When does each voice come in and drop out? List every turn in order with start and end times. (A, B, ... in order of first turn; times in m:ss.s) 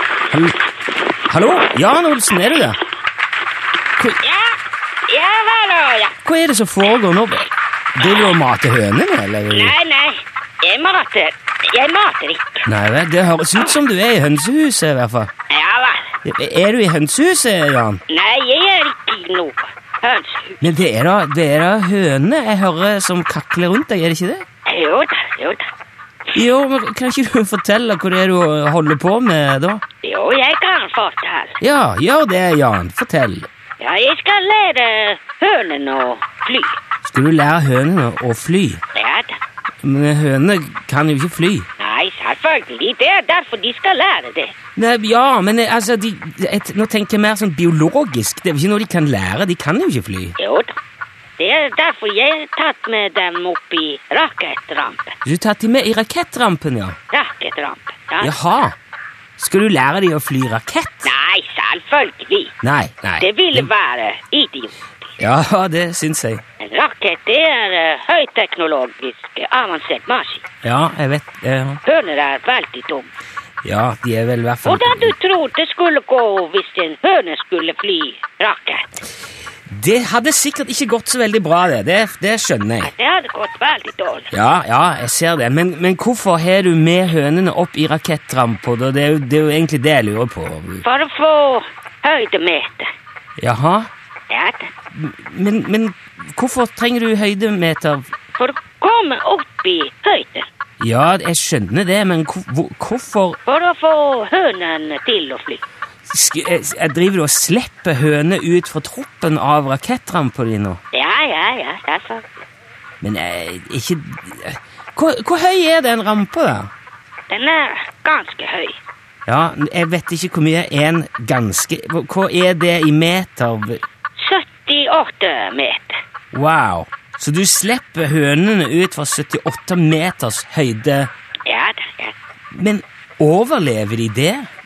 0:00.3-0:00.6 A
0:01.3-0:02.8 A
0:04.2-0:04.6 B
0:05.1-0:06.2 B
0:06.2-0:09.7 A
0:08.0-0:08.3 B
0:09.5-0:12.7 B
0:12.6-0:15.3 A
0:15.5-0:16.1 B
0:16.2-0:18.0 A
0:18.1-0:20.6 B
0:20.6-0:24.4 A
0:24.6-0:25.7 B
0:26.3-0:29.8 A
0:30.0-0:31.6 B
0:31.6-0:33.5 A
0:33.8-0:36.8 B
0:37.0-0:38.8 A
0:38.9-0:39.4 B
0:39.8-0:41.7 A
0:41.8-0:44.5 B
0:44.8-0:50.3 A
0:50.4-0:50.8 B
0:51.4-0:55.1 B
0:55.2-0:57.0 A
0:57.1-0:58.3 B
0:58.2-0:58.8 A
0:59.4-1:01.1 A
1:01.0-1:02.5 B
1:02.6-1:03.7 A
1:03.2-1:04.7 B
1:05.2-1:06.4 A
1:06.6-1:10.4 B
1:10.6-1:11.8 A
1:11.8-1:13.1 B
1:13.6-1:15.1 A
1:14.6-1:18.8 B
1:19.7-1:22.9 A
1:22.8-1:24.3 B
1:24.3-1:30.8 A
1:30.8-1:32.9 B
1:33.4-1:33.9 A
1:34.3-1:34.7 B
1:34.9-1:38.1 A
1:38.4-1:40.5 B
1:40.8-1:43.4 A
1:43.4-1:45.6 B
1:46.1-1:50.8 A
1:50.9-1:52.4 B
1:53.0-1:56.7 A
1:57.3-1:58.8 B
1:59.3-2:03.8 A
2:04.2-2:06.0 B
2:06.3-2:11.1 A
2:11.4-2:12.1 B
2:12.5-2:14.5 A